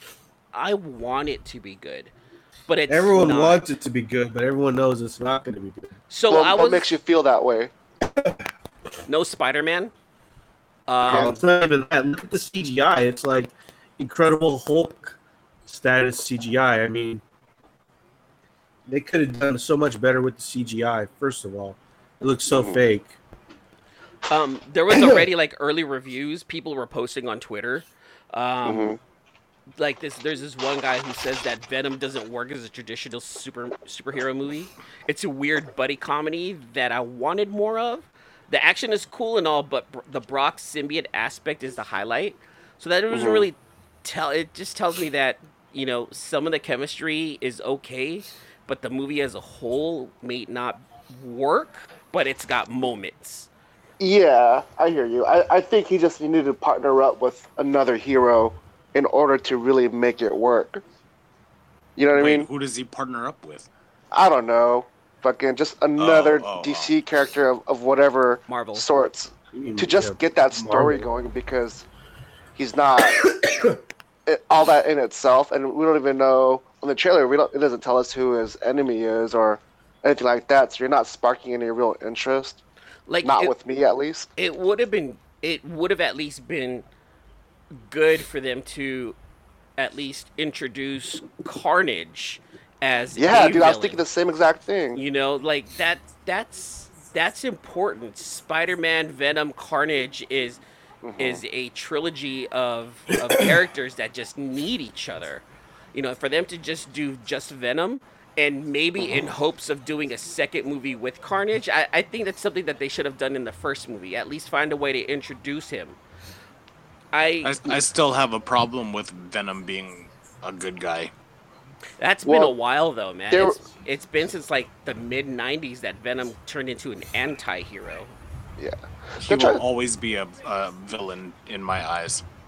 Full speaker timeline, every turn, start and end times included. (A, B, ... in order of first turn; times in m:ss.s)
0:00.5-0:02.1 A
0:02.7-0:03.6 A
0:02.9-0:05.9 B
0:06.1-0:06.9 A
0:06.3-0:07.7 C
0:09.1-0:09.9 A
0:10.9-0:11.4 A
0:11.0-0:17.2 B
0:18.9-0:23.2 B
0:22.5-0:22.8 C
0:24.3-0:28.9 A
0:24.9-0:25.3 B
0:28.6-0:29.0 C
0:29.8-0:53.5 A
0:43.1-0:43.5 C
0:54.0-1:00.8 C
1:02.0-1:02.5 C
1:02.1-1:03.7 D
1:04.1-1:11.8 C
1:06.0-1:06.9 D
1:08.5-1:08.9 A
1:09.5-1:11.1 B
1:12.6-1:13.2 C
1:14.3-1:22.6 C
1:23.1-1:23.5 A
1:23.2-1:24.3 C
1:24.4-1:26.8 A
1:27.7-1:29.2 A
1:29.8-1:34.0 A
1:33.1-1:35.0 C
1:34.9-1:40.6 A
1:41.0-1:41.4 C
1:41.2-1:56.0 A
1:57.1-1:57.8 A
1:57.4-2:01.1 D
2:02.0-2:08.1 A
2:02.2-2:02.5 C
2:03.3-2:03.6 C
2:08.6-2:09.6 C
2:09.2-2:12.2 D